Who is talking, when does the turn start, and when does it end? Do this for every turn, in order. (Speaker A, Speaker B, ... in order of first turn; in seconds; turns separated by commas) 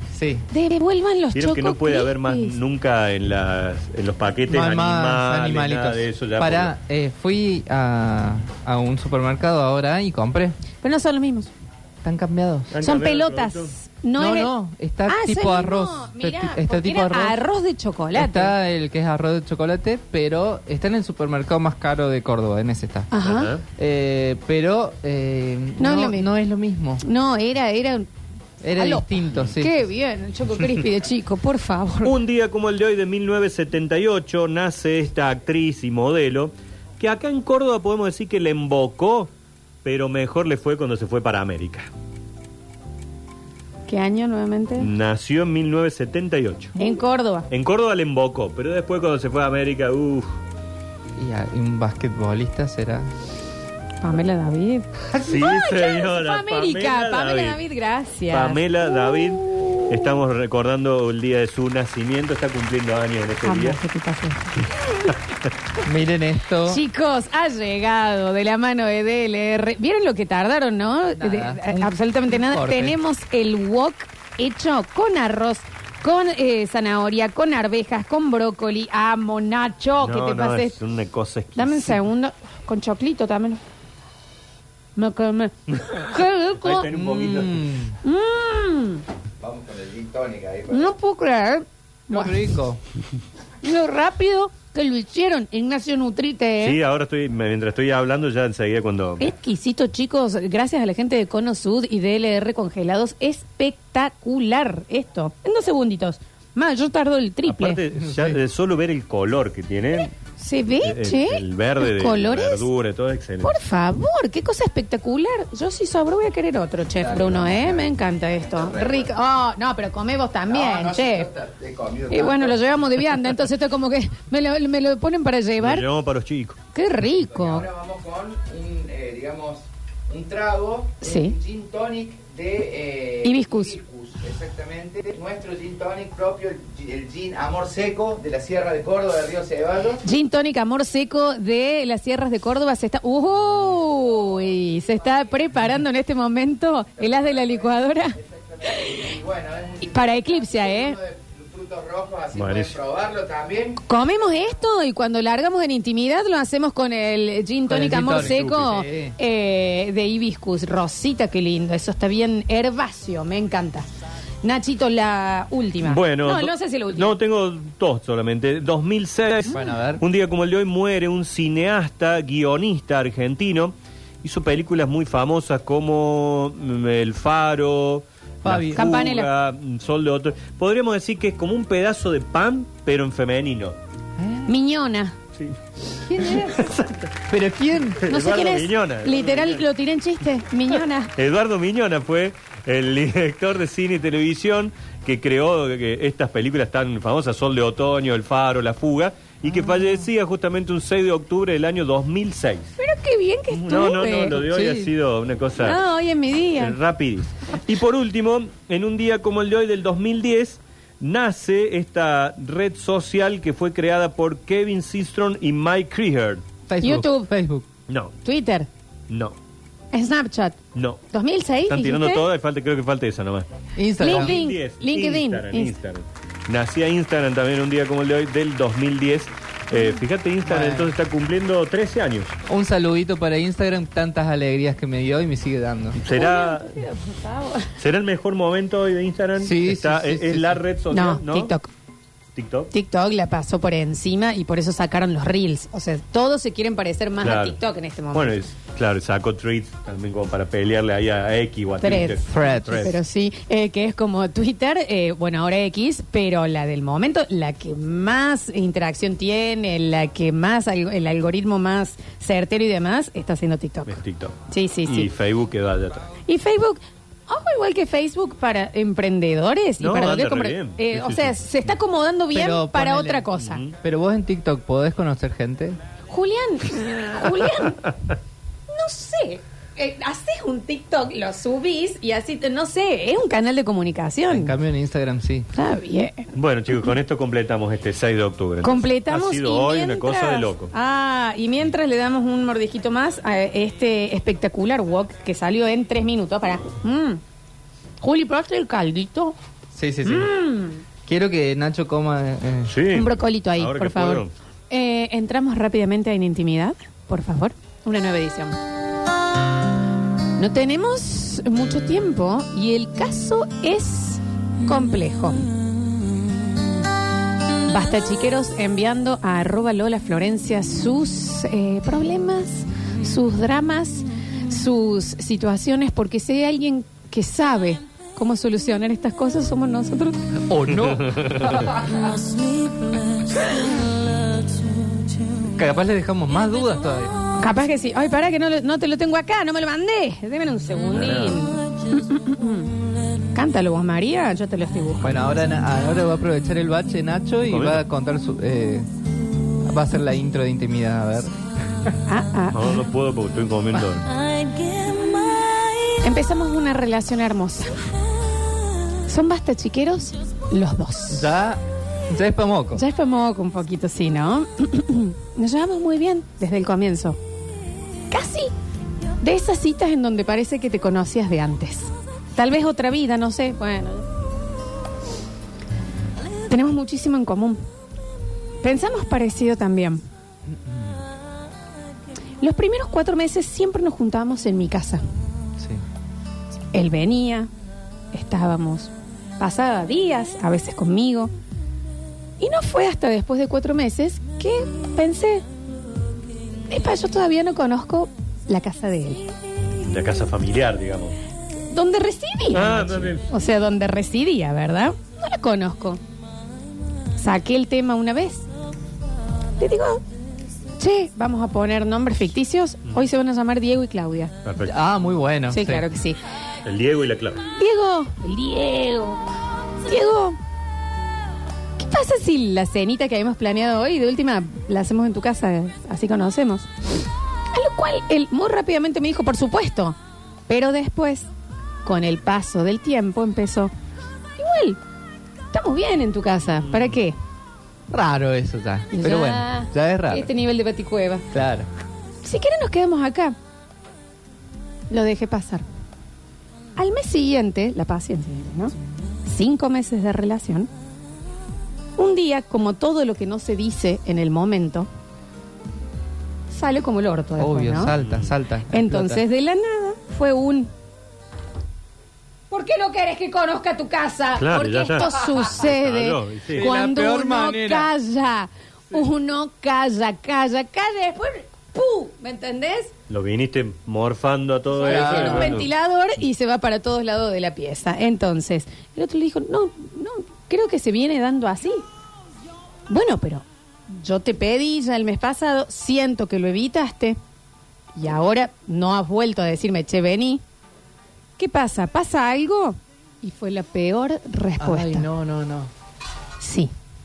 Speaker A: 0.1-0.5, Speaker B: 0.5-2.6, Speaker C: 1.3-6.7, Speaker A: 4.5-10.6, Speaker B: 10.8-11.5, Speaker A: 12.0-12.7, Speaker C: 12.7-13.8, Speaker B: 12.8-14.5, Speaker A: 14.2-17.4, Speaker B: 15.1-18.5, Speaker A: 18.1-23.1, Speaker B: 23.1-23.6, Speaker C: 23.2-23.6, Speaker A: 23.8-27.0, Speaker B: 25.8-26.3, Speaker B: 27.0-28.1, Speaker A: 28.6-29.7, Speaker B: 28.8-32.2, Speaker C: 32.0-39.3, Speaker C: 39.8-41.9, Speaker B: 43.9-44.9, Speaker C: 44.8-46.8, Speaker B: 46.8-47.5, Speaker C: 47.5-50.4, Speaker A: 51.2-53.1, Speaker B: 54.0-58.6, Speaker C: 55.2-57.6, Speaker C: 58.3-63.8, Speaker B: 63.4-65.1, Speaker A: 65.8-66.8, Speaker B: 66.7-80.8, Speaker A: 71.2-73.0, Speaker C: 80.0-82.0, Speaker B: 81.6-83.6, Speaker B: 85.0-86.9, Speaker C: 85.7-86.0, Speaker C: 86.6-87.7, Speaker A: 86.9-88.0, Speaker B: 88.0-89.0, Speaker D: 89.4-90.9, Speaker B: 90.7-92.5, Speaker A: 92.1-92.8, Speaker B: 93.6-96.8, Speaker C: 96.6-99.3, Speaker B: 99.2-107.8, Speaker C: 107.5-110.1, Speaker A: 108.0-108.4, Speaker B: 110.4-112.7, Speaker C: 110.8-113.6, Speaker B: 113.4-121.3, Speaker D: 117.0-119.1, Speaker D: 120.5-122.7, Speaker B: 122.1-125.9, Speaker C: 125.6-126.6, Speaker B: 126.7-127.7, Speaker D: 127.2-140.0, Speaker B: 131.0-131.3, Speaker B: 133.2-133.8, Speaker B: 140.0-149.1, Speaker D: 147.0-153.8, Speaker B: 149.8-151.0, Speaker C: 152.3-152.8, Speaker B: 153.8-163.9, Speaker A: 157.7-159.2, Speaker C: 158.1-158.6, Speaker B: 164.4-167.2, Speaker C: 165.8-183.8, Speaker A: 169.5-170.0, Speaker A: 178.4-178.9, Speaker B: 178.8-179.3, Speaker A: 184.2-184.5, Speaker B: 184.5-185.2, Speaker A: 186.0-186.7, Speaker C: 186.1-187.1, Speaker A: 187.3-188.1, Speaker C: 188.0-189.7, Speaker B: 188.1-191.1, Speaker C: 191.2-202.7, Speaker B: 202.8-204.4, Speaker C: 203.5-205.8, Speaker A: 204.4-204.9, Speaker B: 205.6-206.8, Speaker C: 206.6-216.4, Speaker A: 216.7-217.7, Speaker B: 216.8-217.3, Speaker C: 217.9-218.1, Speaker B: 218.2-218.7, Speaker C: 219.1-219.3, Speaker B: 219.9-220.6, Speaker C: 220.8-221.0, Speaker B: 221.1-222.2, Speaker C: 221.7-223.5, Speaker A: 223.8-224.4, Speaker B: 224.0-225.8, Speaker C: 224.0-232.3, Speaker A: 230.4-230.9, Speaker A: 232.5-236.0, Speaker C: 236.0-236.8, Speaker B: 236.1-237.8, Speaker C: 237.8-241.5, Speaker A: 239.4-240.6, Speaker B: 240.9-241.7, Speaker C: 242.3-242.7, Speaker B: 242.7-248.4, Speaker C: 247.2-247.6, Speaker C: 248.1-253.0, Speaker B: 251.8-265.1, Speaker A: 252.3-252.9, Speaker C: 263.9-266.1, Speaker B: 266.2-273.6, Speaker C: 269.8-271.4, Speaker A: 272.3-273.3, Speaker C: 273.4-273.8, Speaker A: 273.8-275.8, Speaker B: 276.1-277.9, Speaker B: 278.7-284.5, Speaker A: 284.3-285.5, Speaker B: 285.5-286.3, Speaker C: 286.4-290.7, Speaker B: 288.6-297.2, Speaker B: 298.0-299.4, Speaker A: 299.7-300.3, Speaker B: 300.1-300.8, Speaker A: 301.1-302.7, Speaker C: 302.7-304.3, Speaker B: 302.9-308.6, Speaker B: 310.4-315.5, Speaker B: 317.7-330.4, Speaker A: 330.5-332.4, Speaker C: 330.8-331.6, Speaker A: 335.4-337.2, Speaker B: 337.4-342.7, Speaker C: 340.9-341.5, Speaker B: 343.3-345.2, Speaker A: 345.0-348.9, Speaker C: 347.4-347.8, Speaker A: 349.6-352.0, Speaker B: 352.1-352.8, Speaker C: 352.5-354.1, Speaker B: 354.9-357.9, Speaker B: 359.0-361.3, Speaker A: 361.1-362.8, Speaker B: 362.8-367.2, Speaker B: 368.1-368.5, Speaker B: 369.2-374.1, Speaker B: 376.5-377.6, Speaker B: 378.6-380.0, Speaker A: 380.5-381.0, Speaker B: 382.4-385.0, Speaker A: 385.6-385.8, Speaker B: 386.7-387.5, Speaker B: 388.1-391.3, Speaker B: 392.4-395.4, Speaker B: 396.7-399.3, Speaker C: 399.8-401.1, Speaker B: 401.7-406.0, Speaker C: 402.5-403.3, Speaker B: 407.1-408.5, Speaker B: 409.6-410.0, Speaker B: 410.8-414.3, Speaker C: 414.4-414.7, Speaker A: 414.7-415.9, Speaker B: 415.5-416.2, Speaker C: 416.6-417.4, Speaker B: 417.6-419.2, Speaker B: 419.8-420.4, Speaker B: 421.8-426.7, Speaker B: 427.5-430.0, Speaker B: 430.5-431.3, Speaker B: 431.9-433.7, Speaker B: 434.4-434.8, Speaker B: 435.5-437.2, Speaker A: 437.9-440.3, Speaker B: 438.9-441.3, Speaker A: 441.3-441.7, Speaker B: 442.2-443.4, Speaker B: 444.9-445.6, Speaker B: 446.8-448.7, Speaker B: 449.3-450.7, Speaker B: 452.0-454.9, Speaker B: 456.5-457.9, Speaker A: 457.4-459.2, Speaker C: 458.0-458.4, Speaker B: 458.7-460.7, Speaker B: 462.5-472.9, Speaker C: 464.4-466.7, Speaker A: 466.5-467.9, Speaker C: 473.1-475.7, Speaker B: 474.8-481.8, Speaker A: 474.8-475.7, Speaker B: 482.9-487.2, Speaker B: 487.9-490.4, Speaker B: 491.4-495.1, Speaker A: 494.6-495.7, Speaker B: 496.4-496.7